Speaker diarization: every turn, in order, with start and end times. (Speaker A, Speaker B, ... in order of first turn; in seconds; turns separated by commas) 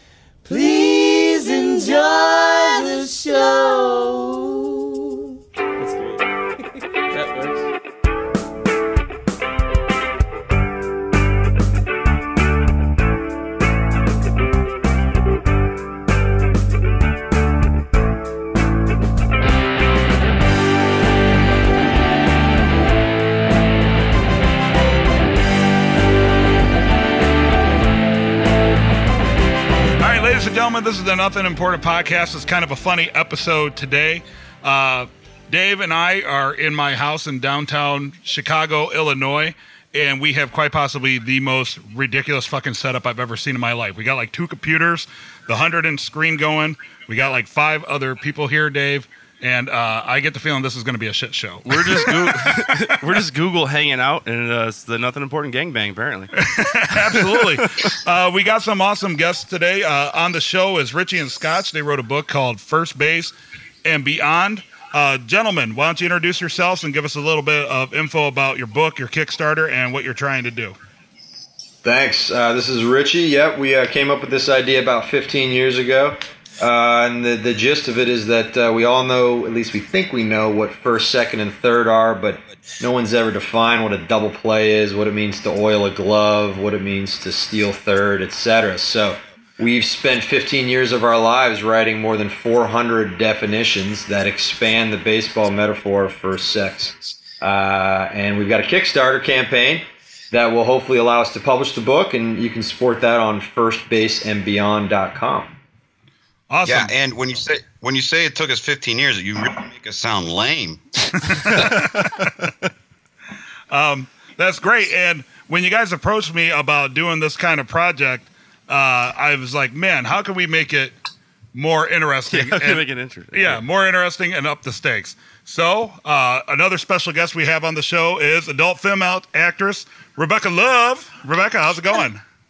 Speaker A: 0.4-4.7, Speaker A: 5.8-6.3, Speaker A: 7.1-7.7, Speaker B: 30.0-52.8, Speaker C: 51.6-56.3, Speaker B: 56.4-63.3, Speaker C: 56.9-57.7, Speaker B: 63.9-70.8, Speaker D: 71.8-105.5, Speaker B: 106.5-106.9, Speaker E: 106.6-110.8, Speaker B: 111.2-112.3, Speaker C: 111.5-112.5, Speaker B: 113.7-121.0, Speaker B: 121.5-132.2, Speaker C: 122.3-123.6